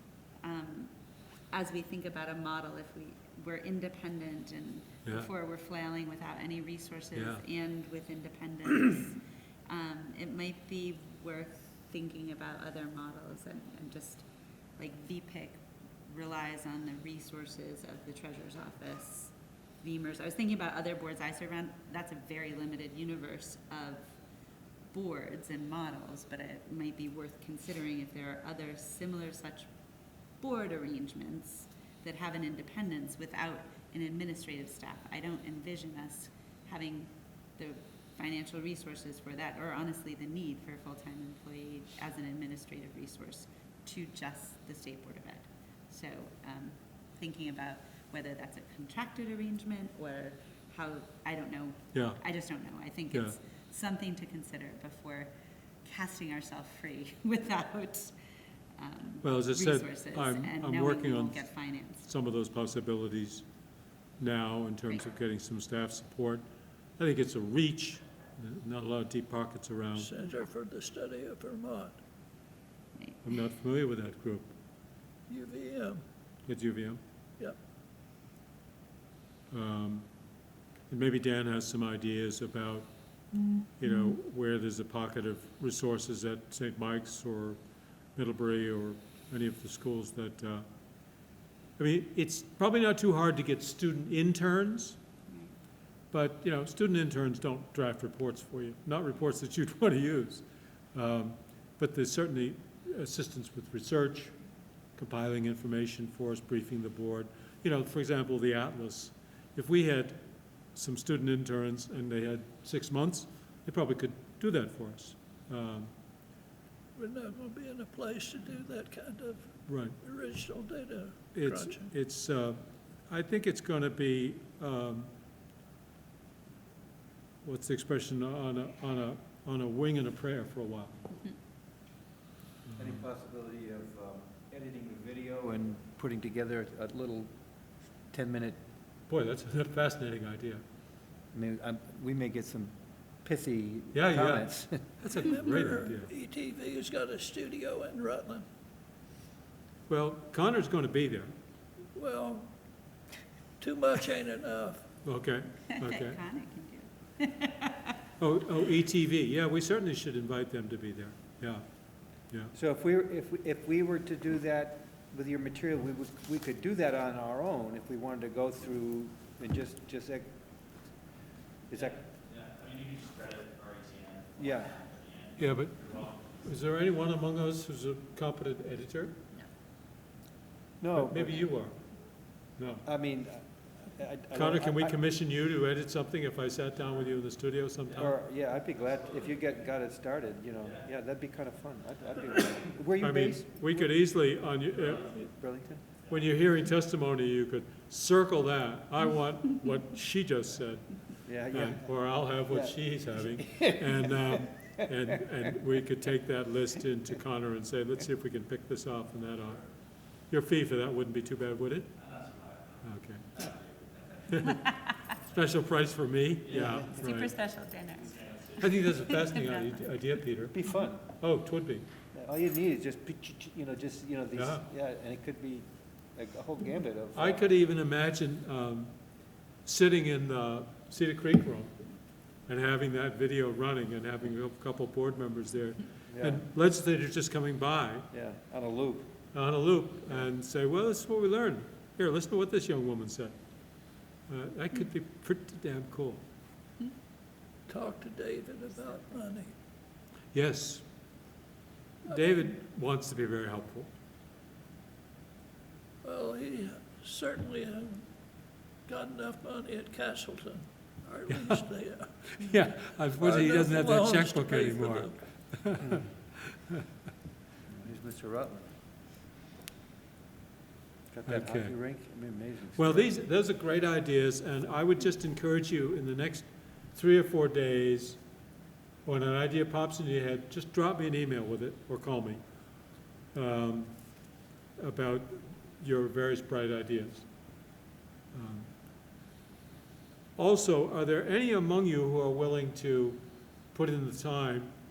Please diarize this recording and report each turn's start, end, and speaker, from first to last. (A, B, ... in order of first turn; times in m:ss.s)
0:00.4-0:00.9 A
0:01.5-0:14.3 A
0:07.2-0:07.4 B
0:14.8-0:24.1 A
0:24.9-0:29.7 A
0:30.4-0:55.3 A
0:51.9-0:52.2 B
0:55.8-0:58.2 A
0:58.8-1:02.1 A
0:59.2-1:03.4 B
1:04.2-1:06.4 B
1:07.0-1:10.1 B
1:10.0-1:12.0 C
1:13.0-1:13.3 A
1:13.2-1:14.5 B
1:15.3-1:16.0 C
1:16.5-1:17.0 B
1:19.5-1:20.0 B
1:20.9-1:22.9 B
1:23.8-1:27.6 B
1:28.2-1:30.6 B
1:31.8-1:35.0 B
1:35.3-1:35.5 A
1:36.1-1:44.3 B
1:45.0-1:50.2 B
1:50.8-1:55.9 B
1:57.0-2:01.9 C
1:59.7-2:00.0 B
2:01.3-2:05.1 B
2:07.4-2:11.0 B
2:12.8-2:17.3 D
2:18.1-2:18.6 D
2:19.1-2:20.6 B
2:21.3-2:24.8 D
2:23.9-2:26.1 B
2:25.1-2:28.4 C
2:29.9-2:31.3 B
2:31.9-2:32.5 C
2:33.6-2:34.9 C
2:35.0-2:36.2 B
2:35.7-2:37.9 A
2:38.2-2:41.6 B
2:42.5-2:50.3 D
2:51.7-2:52.0 D
2:51.9-2:56.3 E
2:54.4-2:54.8 D
2:55.4-2:59.2 B
3:00.8-3:01.4 D
3:01.0-3:01.8 B
3:02.6-3:02.8 B
3:02.8-3:05.0 D
3:04.4-3:08.1 B
3:08.0-3:13.9 D
3:13.0-3:15.3 B
3:15.3-3:15.8 D
3:16.1-3:29.7 B
3:21.3-3:21.8 D
3:22.5-3:22.8 D
3:23.3-3:24.3 D
3:30.3-3:31.9 B
3:32.0-3:32.7 E
3:32.8-3:33.4 B
3:33.4-3:34.0 E
3:34.3-3:34.6 B
3:35.3-3:37.3 B
3:36.5-3:36.9 D
3:36.6-3:38.2 A
3:38.2-3:38.6 E
3:38.6-3:40.6 B
3:38.8-3:40.1 A
3:40.5-3:41.1 D
3:41.2-3:41.9 B
3:42.1-3:47.4 D
3:44.4-3:44.6 B
3:47.2-3:48.9 B
3:49.6-3:51.7 B
3:52.5-3:58.1 B
3:56.1-3:56.4 D
3:58.1-3:59.1 D
3:59.3-4:03.3 B
4:04.3-4:06.2 B
4:07.7-4:09.5 C
4:10.3-4:10.8 B
4:12.0-4:13.9 B
4:16.0-4:18.1 C
4:18.9-4:22.4 C
4:21.3-4:21.6 B
4:22.4-4:26.8 B
4:23.2-4:25.2 C
4:27.7-4:28.7 D
4:31.1-4:33.1 D
4:31.3-4:31.8 B
4:32.8-4:38.2 B
4:39.0-4:42.4 B
4:43.3-4:44.0 B
4:44.8-4:47.3 B
4:48.3-4:48.7 B
4:50.4-4:53.2 B
4:53.7-4:54.7 B